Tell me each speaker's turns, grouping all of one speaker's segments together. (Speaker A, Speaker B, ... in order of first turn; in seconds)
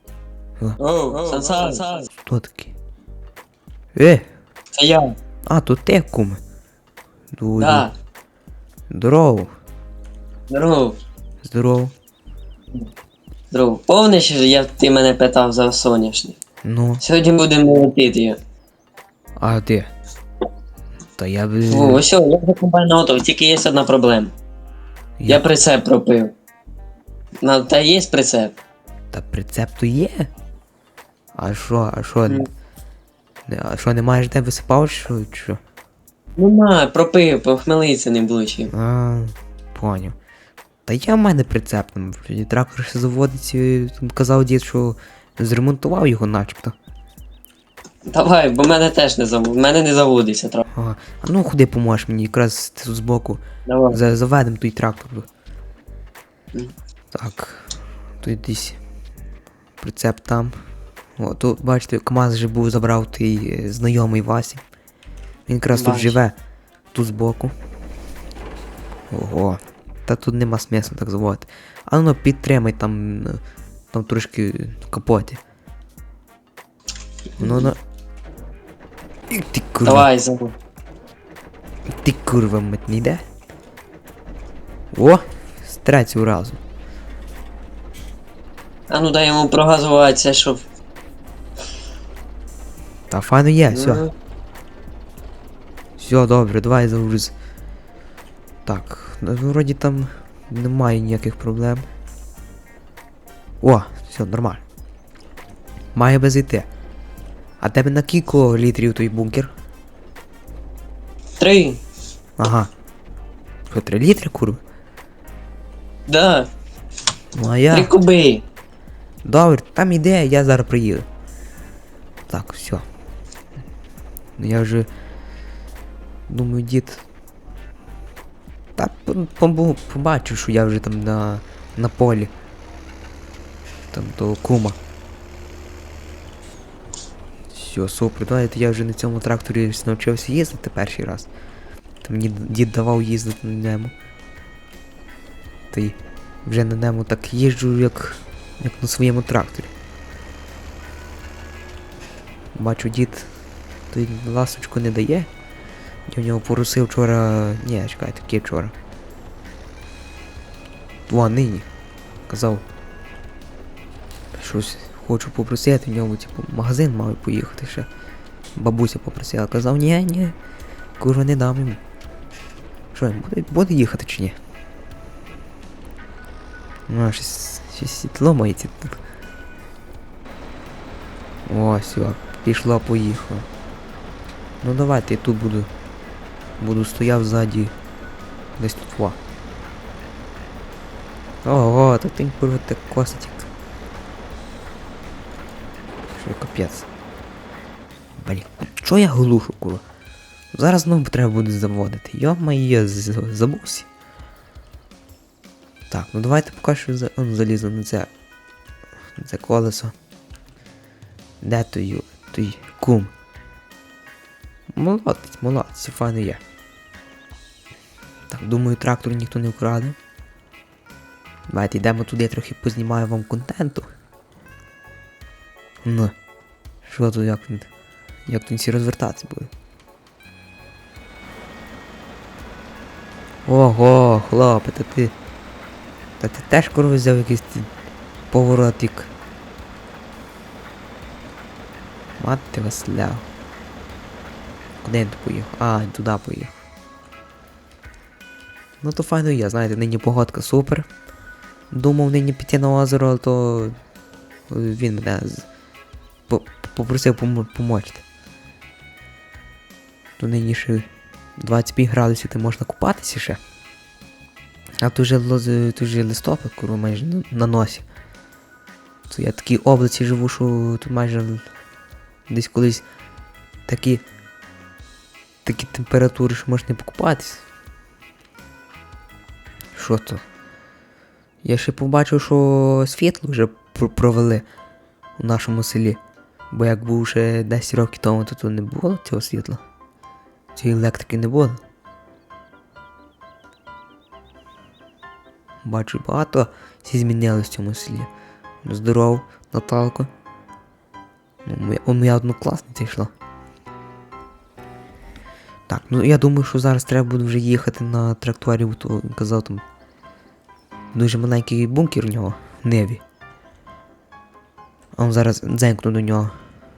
Speaker A: 0.8-2.1, 4.7-5.1, 7.6-7.9, 10.5-10.9, 13.5-16.4, 17.0-18.4, 21.7-24.3, 25.3-26.3, 27.4-28.5, 36.4-38.7, 48.1-50.6, 53.6-54.0, 65.7-66.2, 79.8-80.5, 88.9-90.6, 93.7-94.1, 111.4-111.8, 116.1-116.5, 117.7-118.4
Speaker B: 2.2-2.7, 3.9-4.3, 5.5-6.4, 7.3-7.9, 8.9-9.5, 11.4-11.9, 16.6-17.0, 19.4-19.9, 21.2-22.0, 25.2-25.4, 29.1-30.3, 31.4-32.5, 33.5-35.6, 38.7-40.2, 40.9-46.8, 50.7-55.3, 57.1-58.8, 59.8-60.6, 61.2-64.6, 65.5-66.4, 66.9-67.5, 69.1-73.4, 73.9-75.4, 77.4-77.8, 79.3-80.1, 81.9-83.2, 84.9-86.6, 93.1-94.0, 96.0-97.3, 98.7-101.9, 103.6-104.6, 105.9-106.7, 107.6-109.5, 112.4-112.7, 113.7-114.6, 117.3-117.9, 119.2-121.1, 122.3-122.8, 124.4-124.9, 126.3-127.0, 128.8-132.3, 133.9-134.8, 137.5-141.3, 142.0-143.9, 145.7-149.7, 152.5-153.3, 153.9-155.3, 156.1-158.7, 161.1-161.7, 162.3-162.6, 164.3-167.9, 168.6-170.3, 171.0-171.8, 172.9-174.4, 176.9-179.0, 181.4-183.5, 184.6-185.7, 186.6-187.7, 188.6-189.2, 191.4-193.5, 196.1-196.9, 198.2-199.8, 200.5-203.9, 205.9-208.1, 209.2-209.9, 211.4-213.1, 214.8-216.4, 218.3-219.9, 221.5-223.9, 225.8-226.1, 226.8-227.7, 228.3-229.5, 233.4-235.2, 236.2-237.7, 238.3-239.1, 242.2-243.3, 244.8-246.6, 248.8-250.8, 251.7-253.8, 254.5-255.5, 256.3-258.0, 260.2-263.4, 264.8-267.8, 269.1-271.4, 272.3-272.9, 273.7-274.0, 275.4-277.4, 279.7-280.2, 281.4-284.4, 285.2-286.0, 286.5-289.6, 290.5-291.6, 295.6-298.1, 298.6-300.1, 301.4-303.1, 305.7-309.6, 310.9-313.0, 315.0-316.4